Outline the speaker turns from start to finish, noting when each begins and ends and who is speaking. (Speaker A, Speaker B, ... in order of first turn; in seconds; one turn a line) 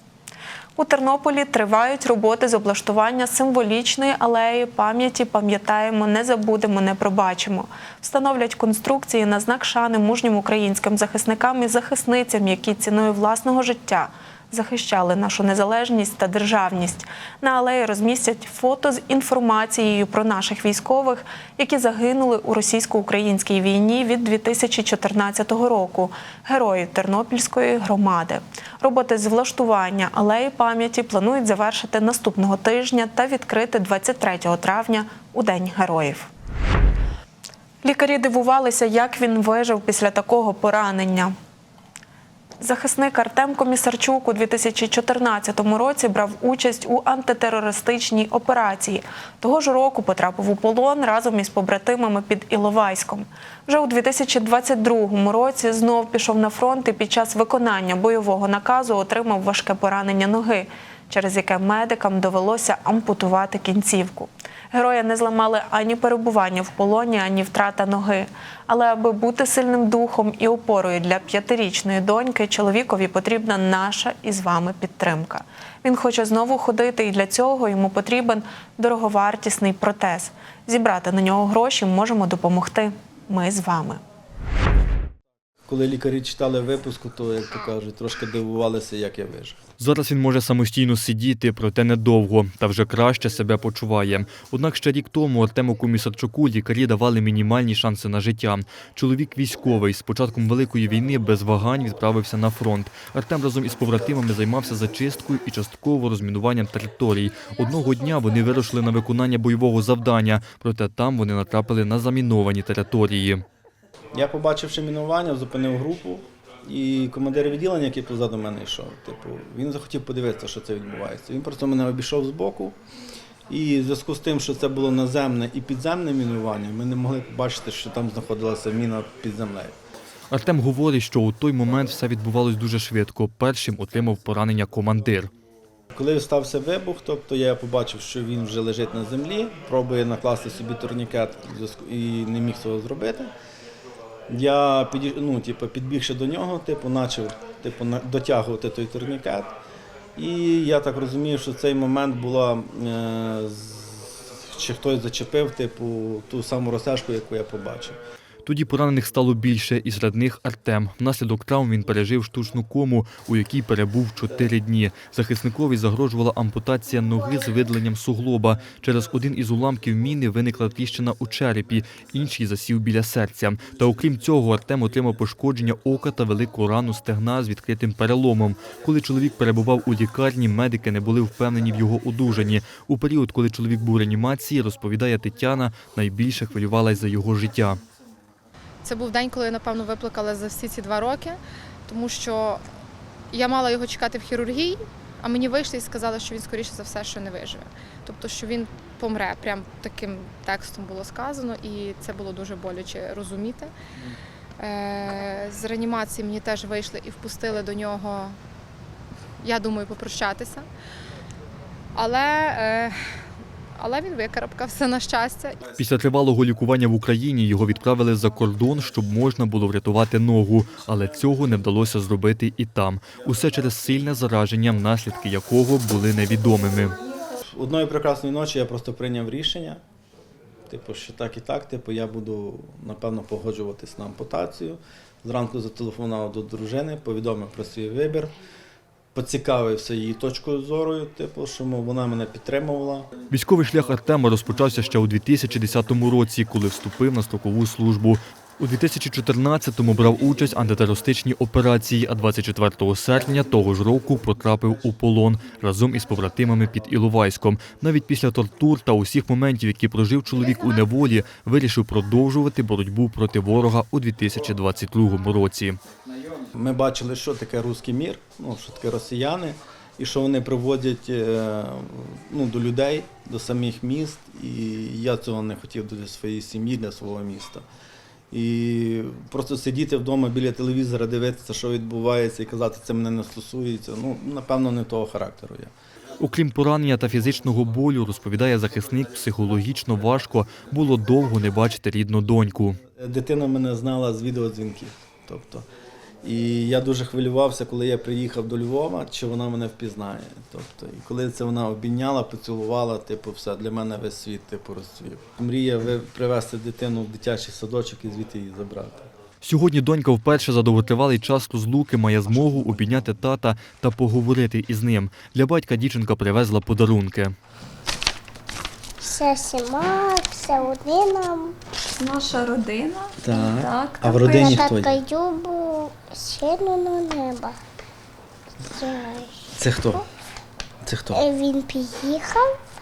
Speaker A: 0.8-36.3
Speaker A: 37.8-41.3
Speaker A: 42.6-84.0
Speaker B: 85.7-89.6
Speaker C: 89.8-113.4
Speaker B: 114.1-122.8
Speaker B: 123.5-129.8
Speaker C: 130.3-135.3
Speaker B: 135.9-143.3
Speaker B: 144.3-149.5
Speaker B: 150.2-158.0
Speaker C: 158.4-187.8
Speaker D: 188.8-192.6
Speaker D: 193.3-203.7
Speaker D: 204.6-208.3
Speaker D: 209.4-210.6
Speaker D: 211.9-212.9
Speaker D: 213.8-215.6
Speaker C: 215.8-227.0
Speaker B: 227.5-229.8
Speaker B: 230.7-238.3
Speaker B: 239.1-243.1
Speaker C: 243.3-265.8
Speaker B: 266.5-277.6
Speaker B: 278.3-285.7
Speaker C: 286.2-292.8
Speaker B: 293.0-295.6
Speaker B: 296.2-309.1
Speaker C: 309.4-317.3
Speaker E: 319.0-321.5
Speaker F: 322.0-324.4
Speaker B: 323.2-325.0
Speaker E: 324.2-327.5
Speaker E: 328.7-329.3
Speaker B: 329.6-330.0
Speaker B: 330.8-331.2
Speaker E: 331.1-332.4